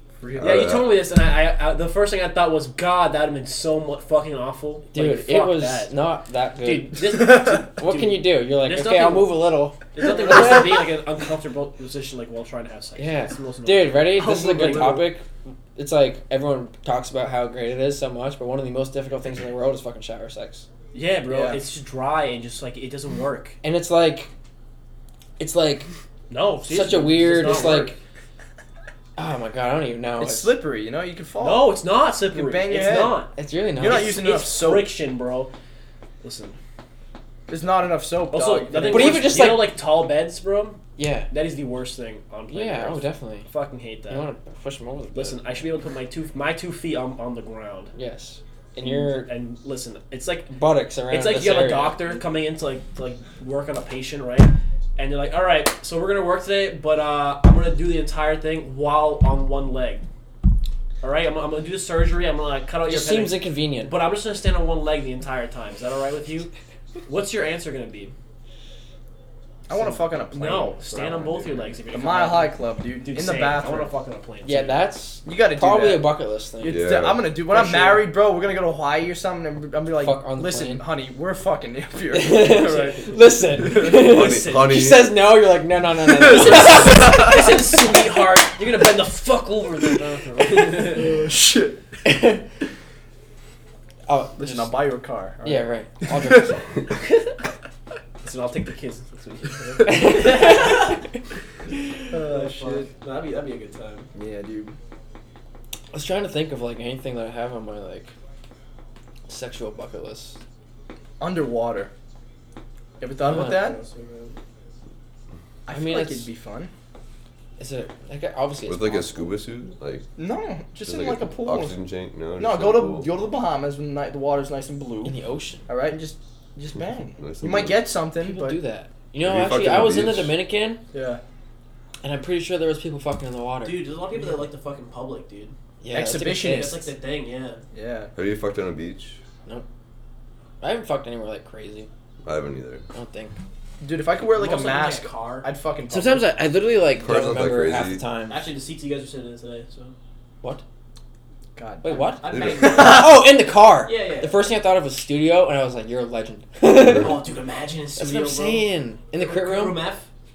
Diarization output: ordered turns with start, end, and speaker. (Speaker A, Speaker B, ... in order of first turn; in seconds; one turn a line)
Speaker A: 0.2-0.8
Speaker B: 0.4-1.0
Speaker C: 0.4-5.9
Speaker D: 4.9-10.8
Speaker C: 6.6-9.4
Speaker A: 7.3-7.6
Speaker C: 9.9-15.1
Speaker A: 10.2-10.5
Speaker D: 13.0-20.6
Speaker C: 20.9-23.6
Speaker A: 21.3-21.6
Speaker D: 23.6-24.3
Speaker D: 25.4-25.9
Speaker C: 26.3-27.9
Speaker D: 26.6-28.0
Speaker A: 27.5-27.8
Speaker D: 29.2-30.5
Speaker A: 30.2-31.8
Speaker C: 31.4-35.5
Speaker A: 32.3-33.2
Speaker D: 33.3-34.2
Speaker A: 33.8-34.9
Speaker C: 36.2-36.6
Speaker A: 37.5-39.5
Speaker C: 38.3-44.2
Speaker D: 38.8-39.7
Speaker D: 41.0-41.3
Speaker D: 42.5-43.5
Speaker D: 44.1-45.6
Speaker C: 45.1-47.9
Speaker D: 47.9-49.3
Speaker C: 48.8-50.5
Speaker D: 50.5-52.2
Speaker C: 51.1-60.0
Speaker C: 61.0-66.5
Speaker D: 62.8-63.9
Speaker C: 67.0-68.1
Speaker A: 69.7-73.9
Speaker C: 70.3-74.8
Speaker D: 74.4-76.9
Speaker A: 75.2-84.0
Speaker B: 76.6-77.3
Speaker C: 77.5-78.1
Speaker D: 80.0-80.8
Speaker D: 82.1-87.1
Speaker C: 82.5-83.1
Speaker C: 83.7-84.8
Speaker B: 83.8-85.2
Speaker A: 86.0-87.7
Speaker C: 86.3-91.2
Speaker B: 86.4-86.7
Speaker A: 90.5-91.8
Speaker D: 92.0-92.4
Speaker D: 94.1-94.8
Speaker A: 94.4-96.4
Speaker D: 95.4-96.7
Speaker C: 98.2-101.0
Speaker D: 99.8-101.0
Speaker A: 102.1-102.9
Speaker C: 102.1-104.1
Speaker A: 104.1-104.7
Speaker D: 105.9-108.1
Speaker D: 109.3-110.4
Speaker A: 111.2-111.9
Speaker A: 113.0-113.8
Speaker D: 113.2-113.6
Speaker C: 113.3-114.3
Speaker A: 115.7-116.7
Speaker D: 115.7-116.3
Speaker D: 117.6-119.3
Speaker B: 118.7-120.0
Speaker A: 120.2-121.8
Speaker B: 120.9-123.1
Speaker A: 122.4-125.1
Speaker D: 125.0-125.7
Speaker A: 125.7-128.6
Speaker B: 127.2-127.9
Speaker D: 128.2-130.8
Speaker B: 129.2-130.3
Speaker A: 130.9-131.2
Speaker D: 132.0-133.9
Speaker C: 133.6-135.5
Speaker D: 135.8-136.9
Speaker A: 135.9-136.8
Speaker C: 136.3-137.6
Speaker A: 137.7-138.1
Speaker B: 138.1-139.2
Speaker D: 140.6-141.9
Speaker B: 142.2-142.8
Speaker D: 142.9-143.3
Speaker A: 143.8-146.3
Speaker C: 144.3-145.5
Speaker D: 145.9-148.4
Speaker B: 147.0-148.0
Speaker C: 148.3-149.9
Speaker A: 151.6-153.3
Speaker D: 151.8-157.2
Speaker C: 151.9-153.2
Speaker B: 152.3-152.8
Speaker C: 153.8-154.5
Speaker C: 156.8-160.1
Speaker D: 157.9-159.8